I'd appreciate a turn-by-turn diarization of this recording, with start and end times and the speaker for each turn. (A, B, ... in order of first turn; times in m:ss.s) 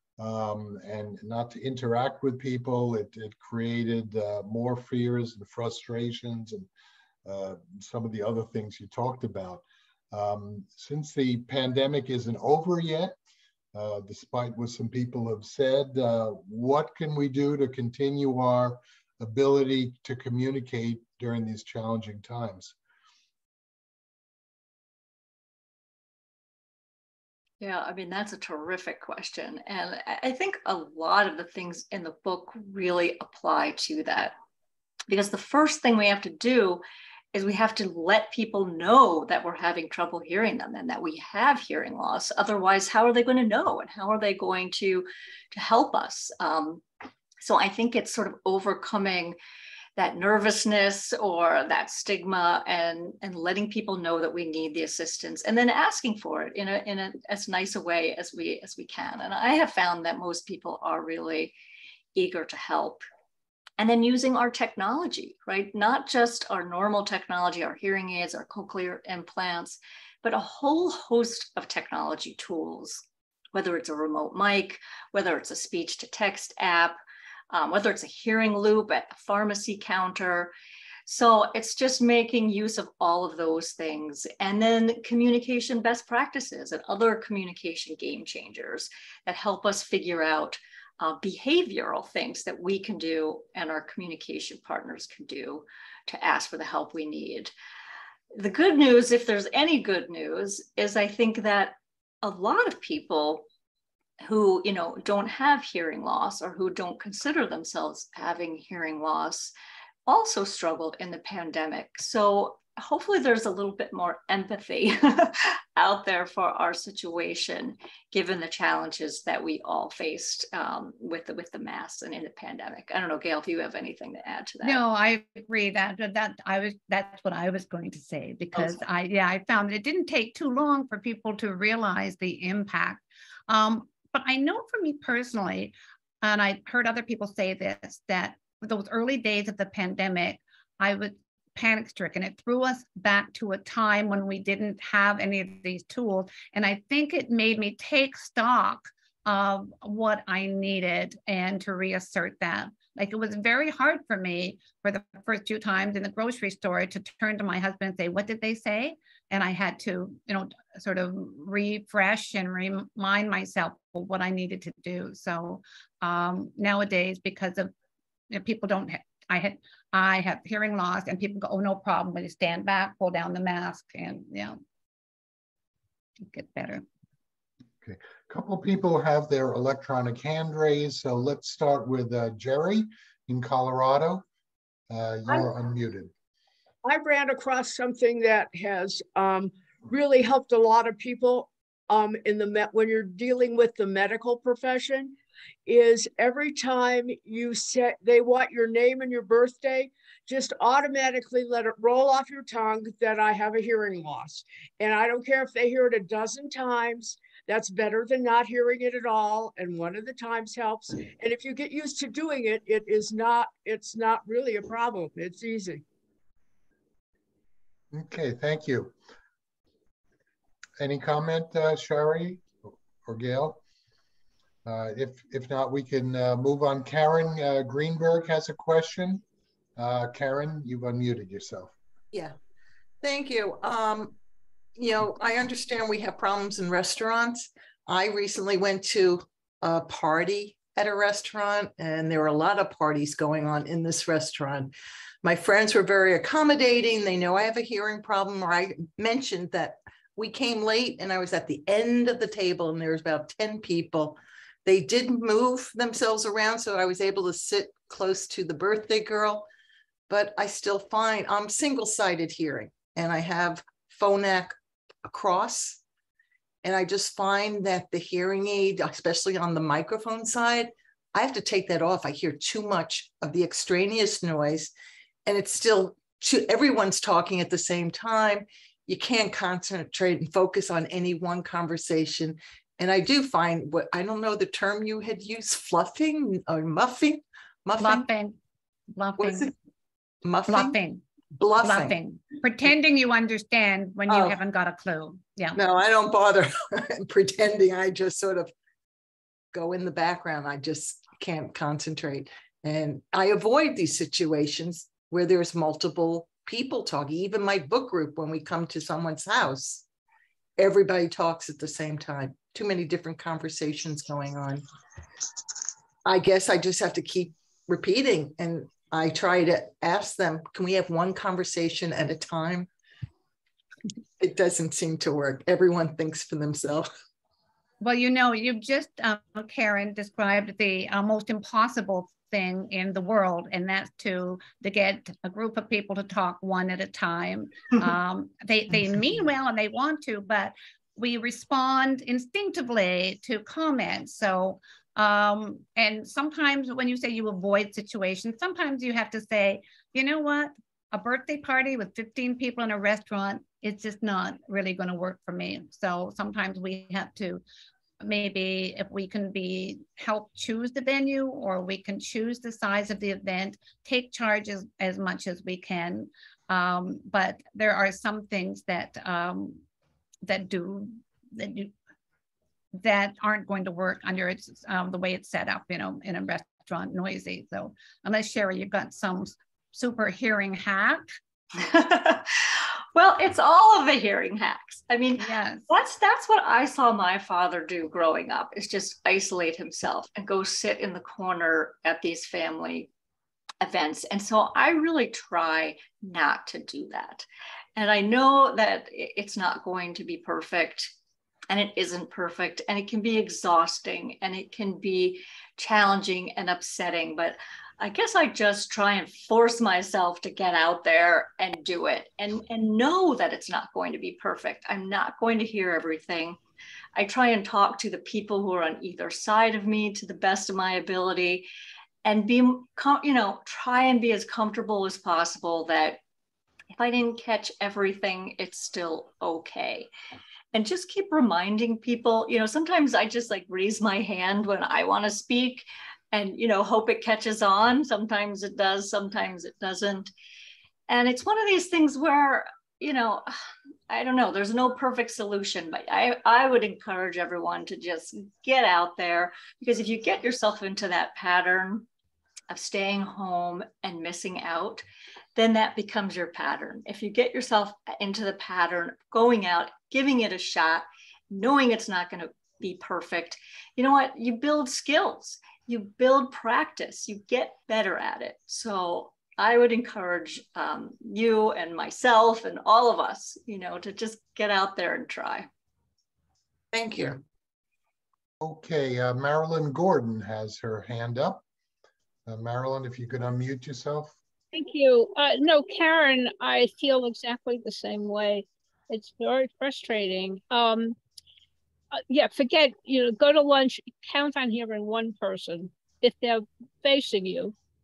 0:00.2-0:06.7 A
0:07.2-0:13.2 A
0:13.7-0:22.8 A
0:27.6-0:34.4 B
0:35.1-0:46.8 B
0:47.4-0:49.4 B
0:50.0-1:01.5 B
1:02.2-1:03.1 B
1:03.8-1:17.0 B
1:17.5-1:20.5 B
1:21.1-1:37.5 B
1:38.4-1:43.5 B
1:44.2-1:49.5 B
1:50.1-2:04.8 B
2:04.6-2:47.7 C
2:48.3-2:54.6 C
2:56.3-2:56.8 C
2:57.8-3:04.2 A
3:04.9-3:06.1 A
3:06.8-3:35.8 D
3:37.9-3:39.0 A
3:40.8-3:43.6 A
3:44.7-3:49.2 A
3:49.8-3:51.7 A
3:53.0-3:54.2 E
3:54.8-4:04.7 E
4:05.2-4:19.5 E
4:20.1-4:25.8 E
4:26.6-4:34.7 E
4:35.3-4:48.1 E
4:47.8-4:48.4 C
4:49.0-4:49.5 C
4:49.2-4:49.5 E
4:50.2-4:50.8 E
4:50.5-4:51.0 C
4:51.4-4:52.0 E
4:51.6-4:55.6 C
4:54.1-4:54.4 E
4:55.6-4:58.5 E
4:59.5-5:09.8 E
5:10.6-5:14.6 E
5:16.0-5:22.7 E
5:24.2-5:26.9 E
5:27.8-5:57.4 C
5:58.0-6:09.6 C
6:10.2-6:11.7 C
6:12.8-6:21.0 C
6:21.6-6:32.9 B
6:25.2-6:25.7 C
6:33.6-6:41.0 B
6:41.5-6:56.4 B
6:57.0-7:01.5 B
7:02.0-7:06.0 B
7:06.8-7:09.9 B
7:10.5-7:20.1 B
7:20.9-7:23.4 B
7:23.9-7:31.9 B
7:32.5-7:34.8 B
7:35.4-7:55.5 B
7:56.7-7:57.2 E
7:58.4-8:01.4 A
8:02.3-8:04.2 A
8:04.5-8:11.0 F
8:11.9-8:17.5 F